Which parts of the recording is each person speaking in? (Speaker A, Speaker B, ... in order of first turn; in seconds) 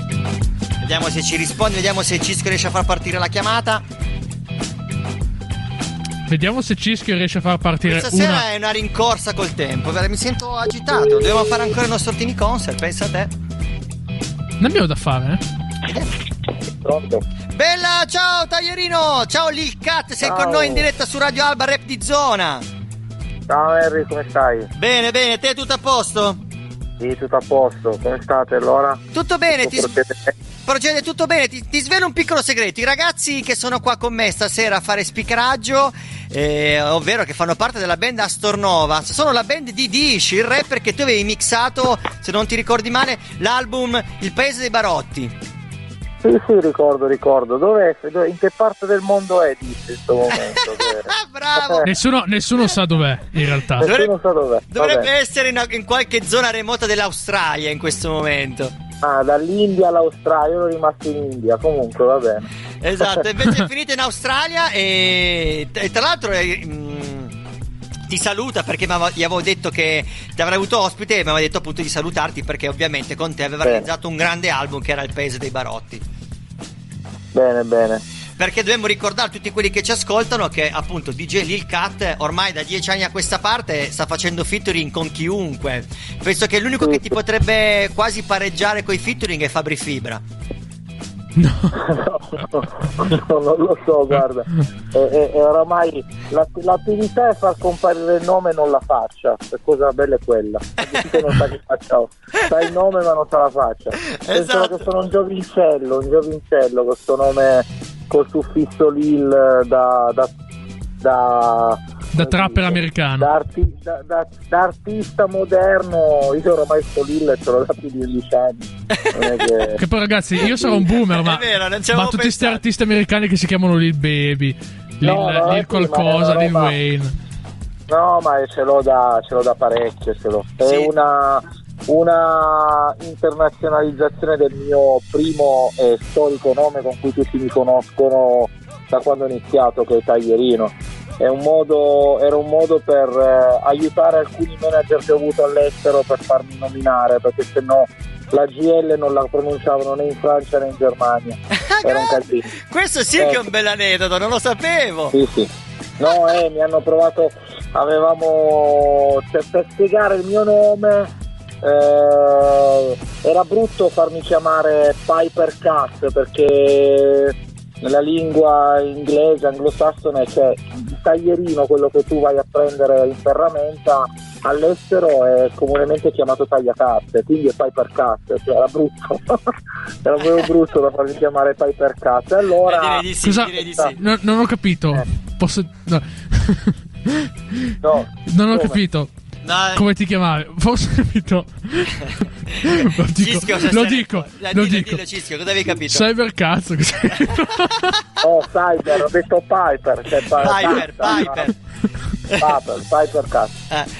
Speaker A: 0.8-3.8, 7.8-13.3, 17.5-22.6, 24.8-26.4, 29.1-29.9, 30.6-45.3, 51.0-51.9, 53.8-54.1, 54.7-58.7, 62.8-67.3, 68.1-76.0, 78.4-90.2, 104.1-104.8, 118.9-119.5, 120.4-122.7, 130.6-130.9, 151.6-155.2, 182.7-184.0, 189.4-189.8, 192.8-196.1, 200.4-201.5
Speaker B: 6.3-8.4, 14.6-15.4, 51.9-53.8, 91.4-91.7, 112.1-113.3, 119.8-127.2, 183.2-187.2, 188.3-189.1, 189.7-192.1, 192.6-195.0, 195.8-197.7
Speaker C: 16.8-17.2, 20.2-20.8, 23.5-24.7, 27.0-29.0, 29.6-30.3, 46.2-51.8, 53.8-55.1, 59.0-62.5, 77.3-78.0, 91.8-110.3, 111.0-119.8, 125.0-126.7, 127.9-152.5, 153.2-153.4, 155.1-161.1, 161.6-179.4, 180.0-183.1, 183.6-183.9, 187.8-188.8, 198.2-201.5, 202.4-203.5